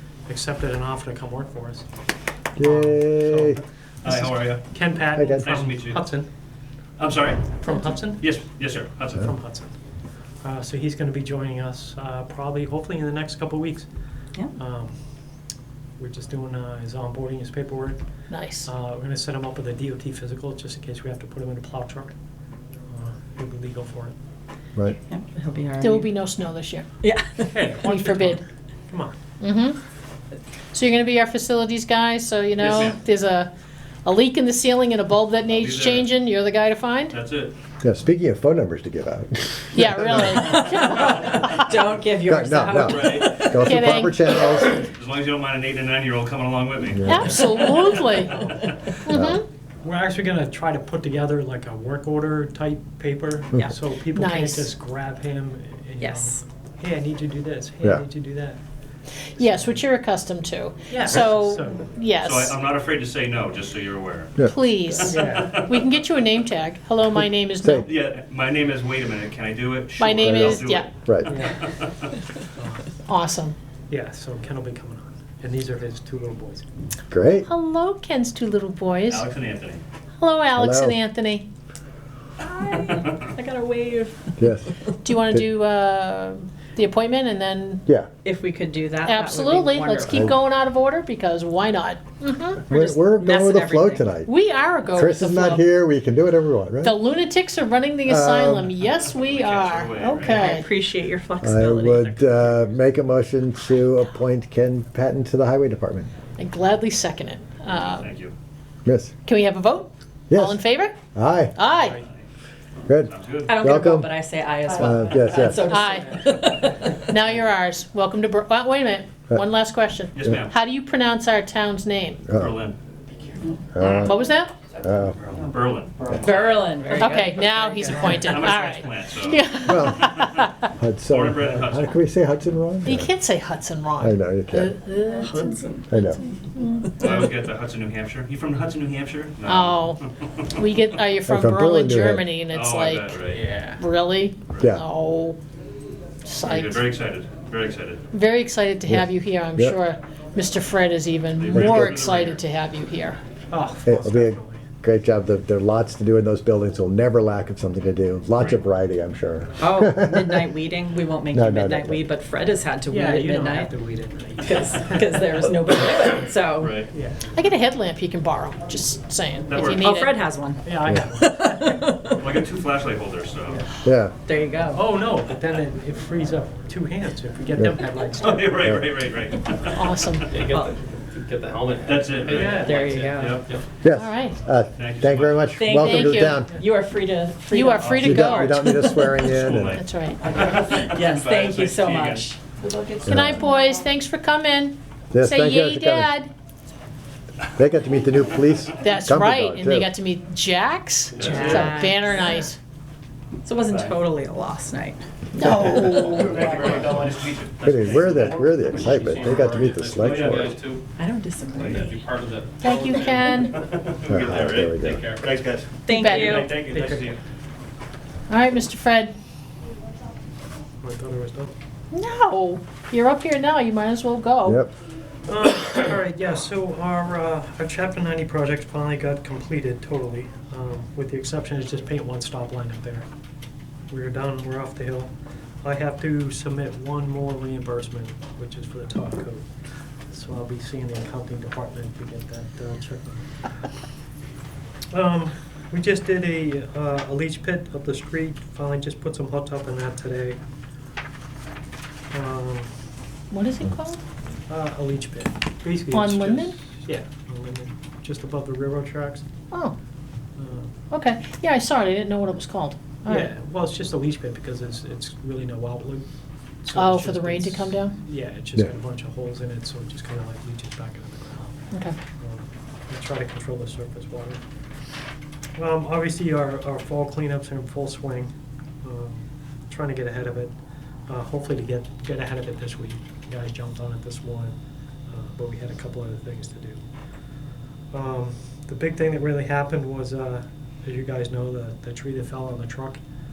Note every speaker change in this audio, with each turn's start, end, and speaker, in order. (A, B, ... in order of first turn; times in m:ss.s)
0:00.3-0:01.9 A
0:02.6-0:06.3 A
0:02.6-0:03.6 B
0:04.0-0:04.8 C
0:05.1-0:05.5 B
0:05.4-0:06.1 C
0:07.0-0:09.3 C
0:07.6-0:08.4 A
0:07.7-0:08.0 D
0:09.1-0:09.8 A
0:10.4-0:13.9 A
0:14.5-0:15.0 A
0:16.0-0:18.0 A
0:18.3-0:18.7 D
0:18.6-0:22.2 A
0:22.9-0:24.2 A
0:25.1-0:26.1 E
0:25.8-0:26.9 D
0:27.0-0:27.5 E
0:27.5-0:29.2 A
0:27.8-0:28.4 D
0:29.4-0:29.8 D
0:30.7-0:33.5 D
0:32.6-0:33.0 C
0:34.0-0:37.2 D
0:35.5-0:36.2 C
0:37.1-0:37.5 C
0:37.8-0:40.4 B
0:39.8-0:41.7 D
0:40.4-0:43.4 E
0:42.3-0:44.8 B
0:42.7-0:43.9 C
0:43.4-0:44.7 D
0:44.7-0:47.8 C
0:46.9-0:47.4 B
0:47.0-0:48.5 D
0:48.2-0:48.9 A
0:49.0-0:49.4 D
0:49.1-0:49.4 B
0:49.8-0:58.6 A
0:54.1-0:54.7 D
0:56.0-0:56.4 E
0:59.4-1:02.6 D
0:59.4-0:59.8 A
1:00.9-1:01.9 A
1:02.2-1:06.0 C
1:04.4-1:07.9 D
1:05.0-1:05.6 A
1:07.6-1:07.9 B
1:07.8-1:12.1 C
1:10.0-1:10.9 D
1:10.2-1:11.3 B
1:11.3-1:11.6 A
1:12.6-1:12.9 A
1:13.1-1:13.6 D
1:13.9-1:16.7 A
1:17.1-1:17.5 B
1:17.4-1:19.3 D
1:19.1-1:19.8 C
1:20.2-1:21.5 D
1:20.6-1:21.0 B
1:22.4-1:24.3 E
1:22.9-1:23.2 C
1:24.4-1:24.7 B
1:25.0-1:27.8 D
1:28.2-1:30.4 E
1:29.0-1:32.6 D
1:32.7-1:34.1 E
1:32.7-1:34.3 B
1:34.2-1:35.7 D
1:35.0-1:37.0 B
1:36.8-1:40.7 D
1:38.1-1:38.7 B
1:39.1-1:40.5 C
1:40.2-1:42.7 E
1:41.4-1:46.1 B
1:46.4-1:48.1 D
1:47.8-1:48.3 C
1:48.8-1:49.1 B
1:49.2-1:51.0 D
1:50.3-1:51.6 B
1:51.6-1:52.0 D
1:51.7-1:52.0 A
1:51.9-1:52.2 C
1:52.9-1:54.1 B
1:53.0-1:53.6 C
1:53.4-1:57.1 E
1:54.7-1:55.6 B
1:55.6-2:02.3 D
2:00.1-2:00.5 C
2:02.3-2:02.6 B
2:02.3-2:02.8 C
2:03.8-2:04.2 B
2:03.8-2:04.1 E
2:03.9-2:04.6 D
2:04.8-2:05.2 B
2:05.3-2:06.6 C
2:06.1-2:08.3 E
2:07.0-2:10.7 D
2:08.1-2:10.4 C
2:09.7-2:10.1 B
2:10.8-2:13.1 B
2:11.1-2:11.9 C
2:12.8-2:15.5 D
2:14.0-2:14.7 B
2:15.2-2:16.3 E
2:15.9-2:16.2 B
2:16.6-2:17.1 D
2:17.0-2:20.6 C
2:19.4-2:20.0 D
2:20.5-2:23.2 D
2:21.3-2:22.3 B
2:22.5-2:23.4 C
2:23.3-2:23.8 F
2:23.7-2:25.4 D
2:24.5-2:24.7 C
2:26.2-2:26.9 D
2:26.4-2:28.0 C
2:28.1-2:33.2 D
2:31.3-2:32.4 C
2:31.5-2:32.0 B
2:33.5-2:34.7 A
2:33.8-2:40.5 B
2:38.3-2:38.6 C
2:39.6-2:43.7 E
2:41.3-2:42.0 B
2:42.9-2:45.2 A
2:44.4-2:46.8 E
2:46.6-2:46.9 C
2:46.9-2:47.3 A
2:47.3-2:50.1 D
2:49.5-2:49.9 C
2:49.6-2:52.2 E
2:50.6-2:51.9 A
2:52.1-2:53.6 C
2:53.4-2:53.7 A
2:53.8-2:54.1 B
2:54.2-2:54.9 E
2:54.7-2:58.8 A
2:58.2-3:00.3 C
2:58.6-2:58.9 B
2:59.7-3:00.3 D
3:00.3-3:03.6 F
3:00.5-3:00.7 E
3:01.8-3:03.4 C
3:02.2-3:02.8 A
3:02.6-3:03.4 E
3:03.8-3:06.6 B
3:03.9-3:04.4 D
3:04.8-3:05.5 C
3:05.6-3:09.3 E
3:05.7-3:06.4 D
3:07.5-3:08.8 D
3:07.8-3:12.3 C
3:08.0-3:09.8 B
3:09.7-3:10.2 D
3:10.4-3:13.8 E
3:13.0-3:16.3 D
3:13.0-3:13.4 B
3:15.1-3:16.2 B
3:17.6-3:19.9 B
3:18.8-3:22.6 D
3:21.1-3:21.9 C
3:21.2-3:22.4 E
3:23.4-3:26.2 E
3:23.6-3:24.0 C
3:25.4-3:26.8 D
3:25.8-3:29.0 C
3:27.6-3:30.5 B
3:27.7-3:30.8 F
3:30.0-3:30.6 C
3:31.0-3:32.0 E
3:31.6-3:31.8 C
3:31.7-3:33.4 F
3:32.6-3:33.5 D
3:33.4-3:37.2 C
3:34.1-3:35.1 B
3:34.5-3:35.4 F
3:35.8-3:36.5 E
3:35.9-3:36.5 D
3:36.7-3:37.2 A
3:38.3-3:39.1 D
3:40.8-3:41.5 A
3:41.9-3:44.6 D
3:45.3-3:53.1 A
3:53.9-3:55.1 A
3:55.6-3:59.5 A
4:00.1-4:03.3 A
4:04.9-4:10.4 A
4:12.1-4:12.7 A
4:13.3-4:14.0 D
4:14.5-4:19.2 A
4:15.9-4:16.6 D
4:19.5-4:19.8 D
4:20.4-4:20.7 A
4:20.9-4:23.3 D
4:23.1-4:26.1 A
4:26.6-4:31.6 A
4:26.7-4:28.0 D
4:31.7-4:32.0 D
4:32.2-4:34.4 A
4:35.6-4:40.6 A
4:41.1-4:46.8 A
4:47.9-4:53.0 A